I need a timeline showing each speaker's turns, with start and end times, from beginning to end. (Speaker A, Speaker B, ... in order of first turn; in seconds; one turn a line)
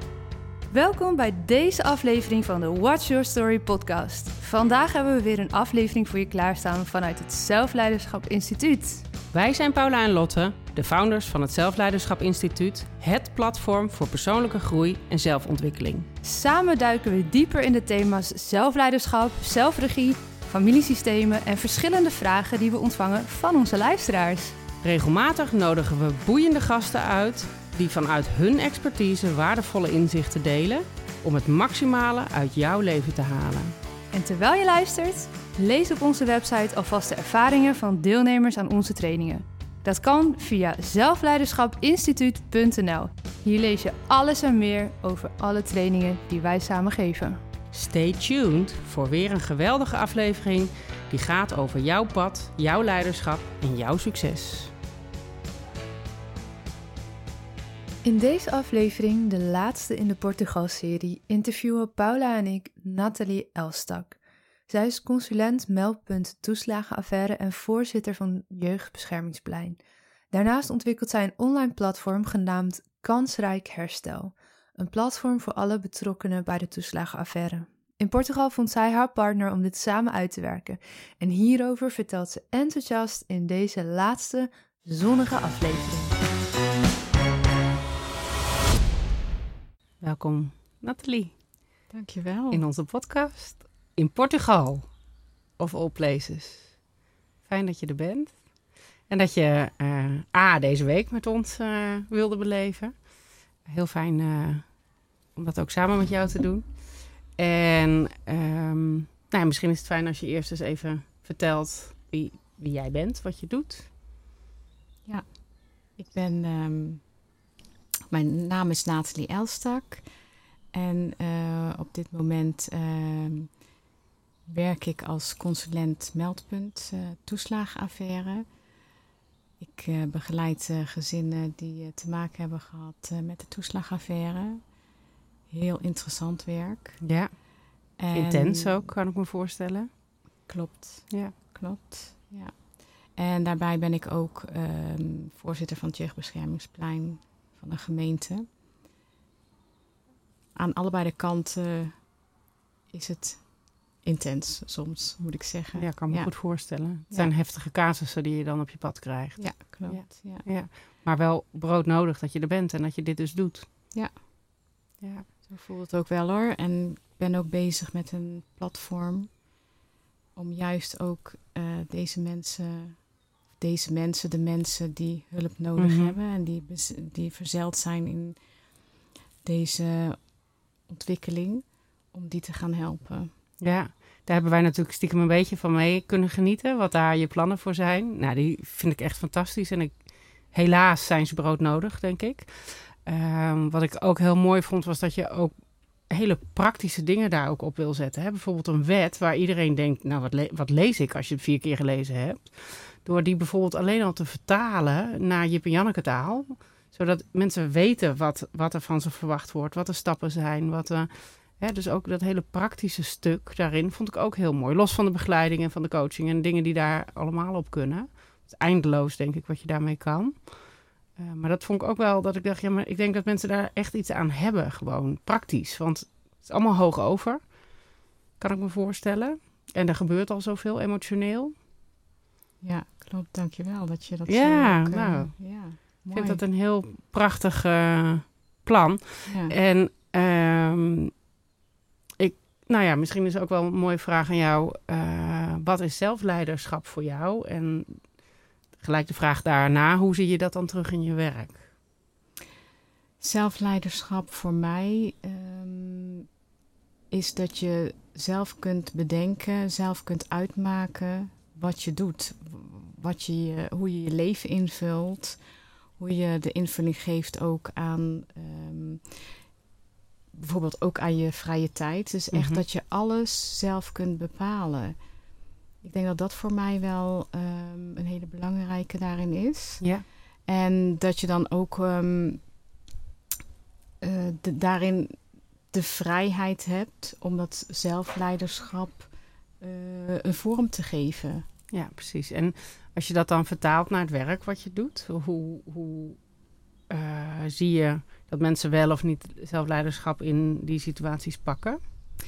Speaker A: 0.7-9.1
Speaker B: 9.3-16.1
Speaker A: 16.2-24.6
Speaker B: 24.8-33.7
Speaker A: 34.1-47.4
Speaker B: 47.7-54.7
Speaker A: 58.0-64.2
Speaker A: 64.7-69.8
Speaker A: 70.3-86.2
Speaker B: 90.0-91.3
Speaker C: 91.9-92.6
Speaker B: 92.5-94.9
Speaker B: 95.6-96.8
Speaker B: 97.4-103.1
Speaker B: 103.6-104.8
Speaker B: 105.3-113.9
Speaker C: 115.0-117.2
Speaker C: 118.1-120.0
Speaker C: 120.7-123.6
Speaker C: 124.5-128.5
Speaker C: 129.6-134.8
Speaker C: 135.5-137.0
Speaker B: 137.0-139.9
Speaker C: 138.0-138.9
Speaker C: 140.4-148.5
Speaker B: 141.1-141.3
Speaker C: 150.5-152.3
Speaker C: 152.9-157.3
Speaker B: 155.7-163.7
Speaker C: 159.3-160.4
Speaker C: 163.9-164.2
Speaker B: 165.0-165.3
Speaker C: 165.4-169.5
Speaker C: 170.3-178.4
Speaker B: 175.8-176.2
Speaker C: 179.4-183.3
Speaker B: 183.6-231.5
Speaker C: 232.6-236.4
Speaker B: 234.2-241.2
Speaker C: 239.3-239.5
Speaker B: 242.2-251.7
Speaker C: 253.2-256.3
Speaker C: 257.1-265.4
Speaker C: 266.0-269.4
Speaker C: 270.3-275.0
Speaker B: 272.3-272.6
Speaker C: 275.8-279.9
Speaker C: 280.4-282.5
Speaker C: 284.0-291.4
Speaker B: 291.7-296.2
Speaker B: 296.9-301.8